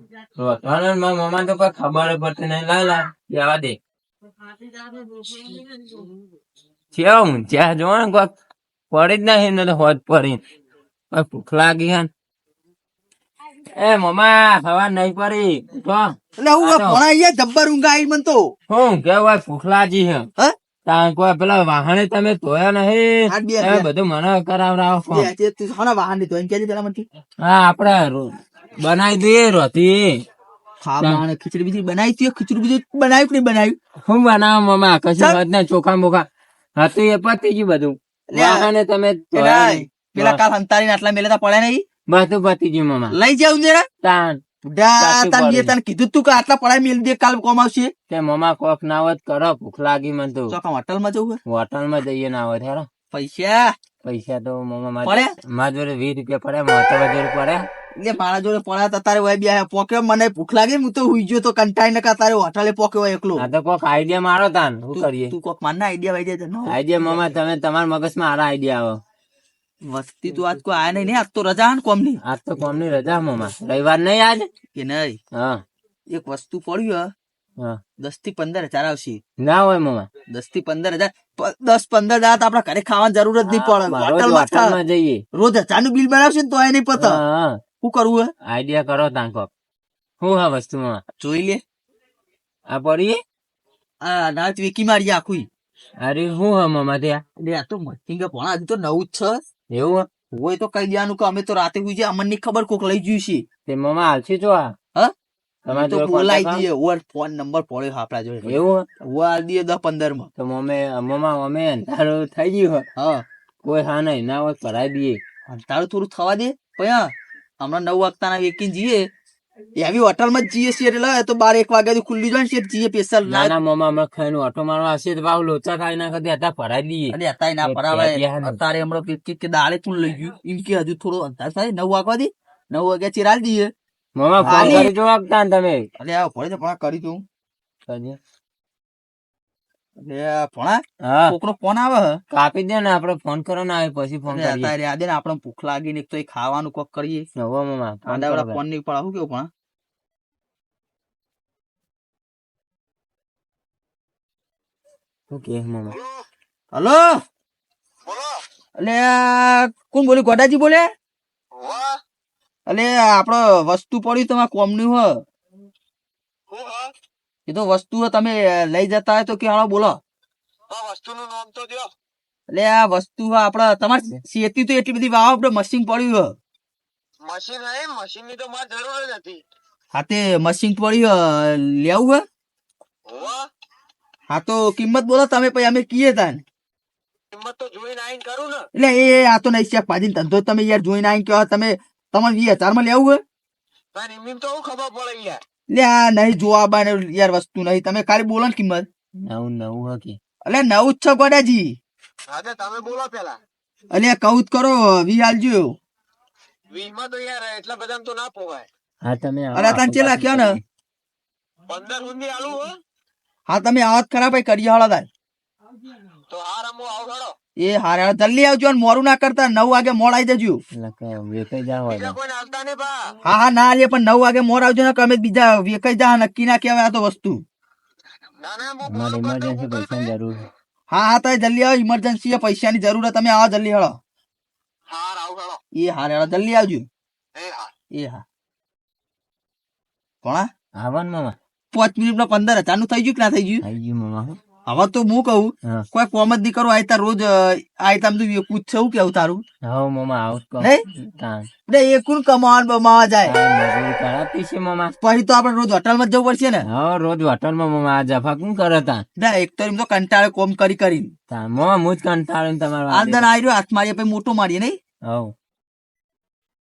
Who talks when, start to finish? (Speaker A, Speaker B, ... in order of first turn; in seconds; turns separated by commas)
Speaker A: 0.4-3.8, Speaker A: 6.9-8.3, Speaker A: 8.9-10.4, Speaker A: 11.1-12.1, Speaker A: 13.8-17.0, Speaker B: 16.4-18.5, Speaker A: 18.7-20.3, Speaker A: 20.9-25.3, Speaker B: 23.3-23.9, Speaker B: 25.1-27.1, Speaker A: 27.4-30.2, Speaker B: 30.8-33.8, Speaker A: 34.1-36.3, Speaker A: 36.8-40.4, Speaker B: 38.3-38.7, Speaker B: 39.3-41.8, Speaker A: 42.1-43.1, Speaker B: 43.1-43.9, Speaker A: 44.0-44.4, Speaker B: 44.6-47.9, Speaker A: 45.0-45.7, Speaker A: 48.1-50.5, Speaker B: 50.5-51.4, Speaker A: 51.5-52.9, Speaker B: 53.1-53.7, Speaker A: 54.0-57.6, Speaker B: 58.0-63.4, Speaker A: 63.4-65.3, Speaker B: 64.9-67.2, Speaker A: 66.7-69.0, Speaker B: 69.9-72.2, Speaker A: 72.2-74.5, Speaker B: 74.8-75.2, Speaker A: 75.3-75.6, Speaker B: 76.1-77.1, Speaker B: 78.0-79.2, Speaker A: 79.4-80.1, Speaker B: 80.3-84.8, Speaker A: 83.5-85.2, Speaker B: 85.3-87.2, Speaker A: 87.0-87.6, Speaker B: 87.8-88.3, Speaker A: 88.5-89.5, Speaker A: 90.2-91.0, Speaker B: 91.2-91.6, Speaker A: 92.7-93.2, Speaker B: 94.0-95.5, Speaker A: 96.0-97.2, Speaker B: 97.4-99.4, Speaker A: 99.7-100.1, Speaker B: 100.3-103.4, Speaker A: 103.7-104.7, Speaker A: 105.7-106.7, Speaker B: 105.7-110.3, Speaker A: 108.5-108.8, Speaker A: 110.4-112.9, Speaker B: 113.0-113.2, Speaker A: 113.6-115.2, Speaker B: 115.5-117.1, Speaker B: 117.6-119.0, Speaker B: 119.8-123.5, Speaker A: 123.3-128.6, Speaker B: 127.1-133.7, Speaker A: 134.2-135.8, Speaker B: 134.4-134.9, Speaker B: 136.0-137.2, Speaker A: 137.9-138.2, Speaker B: 140.0-142.2, Speaker A: 141.1-141.3, Speaker A: 142.3-144.7, Speaker B: 144.3-147.3, Speaker A: 147.4-148.6, Speaker B: 148.1-149.5, Speaker A: 155.3-156.0, Speaker B: 156.7-157.1, Speaker B: 158.8-160.9, Speaker C: 161.6-161.9, Speaker B: 162.7-165.2, Speaker C: 166.5-166.9, Speaker B: 167.5-170.0, Speaker C: 170.7-171.9, Speaker B: 172.5-176.3, Speaker C: 177.3-179.4, Speaker B: 179.9-182.2, Speaker C: 183.1-183.4, Speaker B: 184.3-186.4, Speaker C: 187.3-188.7, Speaker B: 188.8-193.2, Speaker C: 193.9-195.4, Speaker B: 195.7-198.9, Speaker A: 199.3-200.2, Speaker B: 200.5-201.8, Speaker C: 202.3-203.4, Speaker B: 203.9-205.8, Speaker C: 206.7-208.7, Speaker A: 209.0-210.6, Speaker B: 209.5-210.5, Speaker C: 211.7-212.7, Speaker B: 213.5-215.1, Speaker C: 216.3-217.3, Speaker B: 217.6-220.6, Speaker A: 220.8-222.2, Speaker C: 221.9-222.9, Speaker B: 223.3-227.4, Speaker C: 228.4-229.9, Speaker A: 228.8-230.5, Speaker B: 230.9-234.0, Speaker C: 234.9-235.6, Speaker B: 235.8-236.9, Speaker C: 237.4-237.7, Speaker B: 237.9-238.2, Speaker B: 240.2-240.5, Speaker A: 240.8-241.4, Speaker B: 241.7-243.6, Speaker A: 243.6-244.4, Speaker B: 244.7-249.4, Speaker A: 249.7-251.5, Speaker B: 250.6-251.0, Speaker B: 251.7-253.3, Speaker A: 253.3-254.9, Speaker B: 255.0-256.6, Speaker A: 256.7-259.0, Speaker B: 259.2-261.1, Speaker A: 261.3-263.3, Speaker B: 262.9-264.8, Speaker A: 265.1-265.3